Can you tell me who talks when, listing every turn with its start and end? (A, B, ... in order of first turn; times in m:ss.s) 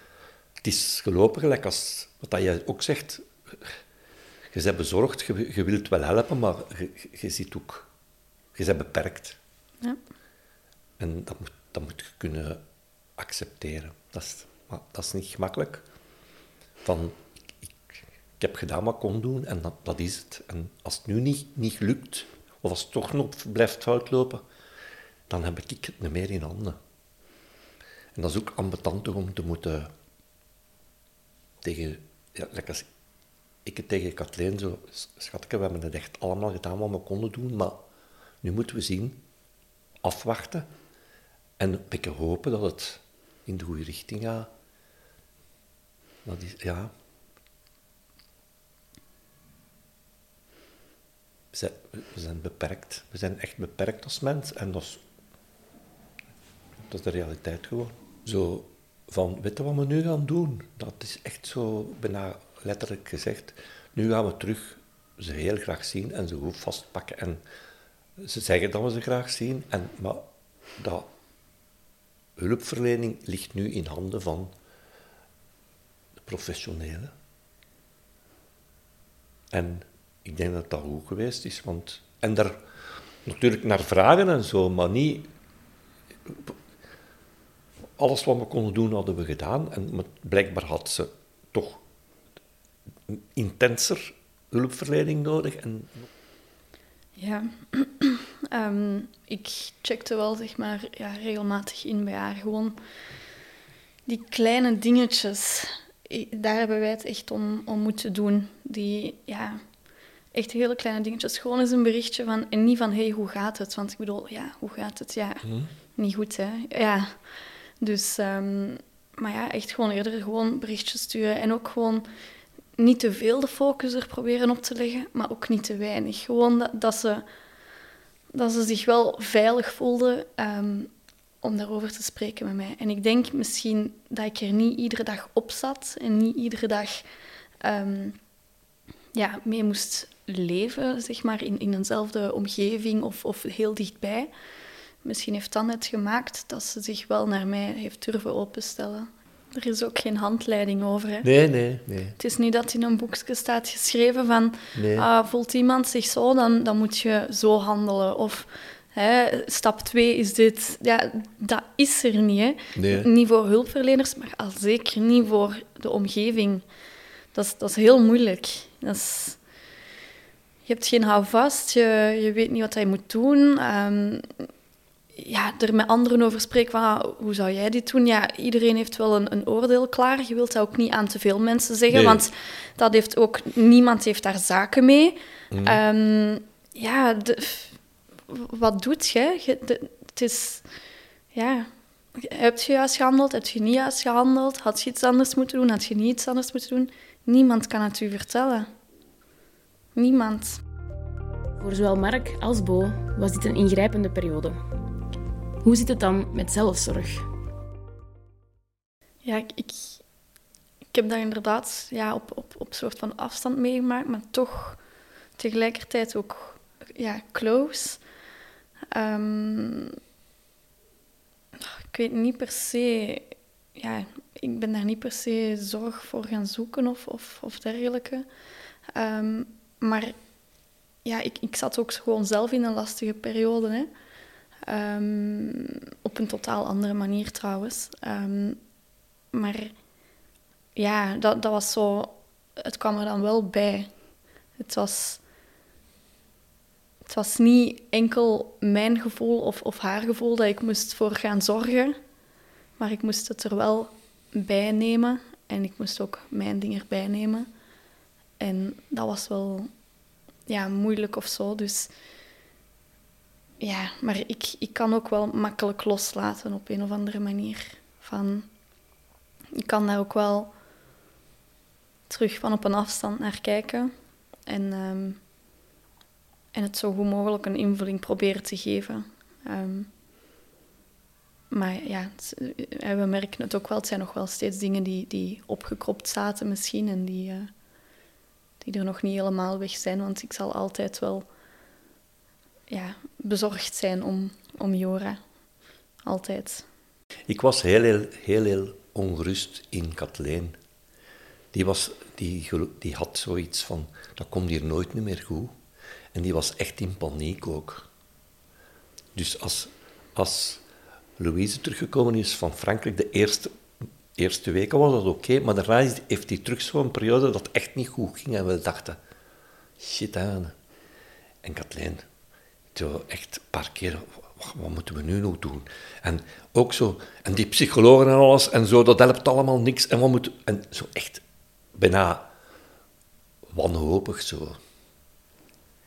0:00.6-0:03.5 A
0:04.5-0:07.9 A
0:08.5-0:09.4 A
0:11.0-0:12.6 A
0:13.2-0:15.8 A
0:16.8-0:17.7 A
0:18.4-0:24.4 A
0:25.3-0:26.8 A
0:28.2-0:29.9 A
0:31.6-0:32.9 A
0:33.6-0:37.8 A
0:38.4-0:39.2 A
0:40.0-0:40.7 A
0:41.6-0:44.5 A
0:46.2-0:46.9 A
0:51.5-0:55.0 A
0:56.9-1:07.4 A
1:08.2-1:10.2 A
1:10.8-1:11.0 A
1:12.4-1:14.5 A
1:16.2-1:17.1 A
1:19.5-1:22.6 A
1:23.2-1:25.3 A
1:26.3-1:26.6 A
1:28.0-1:31.8 A
1:33.1-1:36.0 A
1:37.2-1:42.8 B
1:44.1-1:49.6 B
1:50.3-1:57.2 B
1:55.4-1:55.7 A
1:57.8-2:02.0 B
2:02.8-2:07.2 B
2:08.3-2:10.9 B
2:11.4-2:17.0 B
2:17.6-2:18.2 B
2:19.1-2:24.3 B
2:25.0-2:31.3 B
2:31.2-2:32.2 A
2:32.2-2:46.6 B
2:34.7-2:35.1 A
2:42.7-2:43.1 A
2:47.3-2:49.4 B
2:50.6-2:54.5 B
2:55.2-3:10.6 B
3:01.9-3:02.2 A
3:05.5-3:05.8 A
3:11.3-3:18.7 B
3:19.9-3:20.6 B
3:21.6-3:24.6 C
3:25.6-3:27.2 C
3:29.2-3:30.0 B
3:30.9-3:34.8 B
3:35.4-3:38.0 B
3:38.9-3:40.0 B
3:41.6-3:48.2 B
3:48.9-3:50.2 B
3:51.0-3:53.9 B
3:54.7-3:58.6 B
3:59.3-3:59.7 B
4:00.8-4:03.9 B
4:04.6-4:05.2 B
4:07.0-4:12.0 B
4:12.8-4:17.5 B
4:18.4-4:19.7 B
4:20.5-4:21.9 B
4:23.6-4:28.5 B
4:29.6-4:30.5 B
4:32.1-4:33.9 B
4:34.5-4:35.2 B
4:36.5-4:39.9 B
4:41.5-4:47.5 B
4:48.6-4:51.2 B
4:52.7-4:55.2 B
4:56.0-4:56.7 B
4:57.3-5:00.6 A
5:01.5-5:05.5 A
5:06.1-5:07.9 A
5:09.1-5:10.6 A
5:11.2-5:13.5 A
5:14.2-5:19.0 A
5:19.8-5:20.5 A
5:21.4-5:22.0 A
5:22.7-5:31.2 A
5:31.7-5:32.3 A
5:33.5-5:34.6 A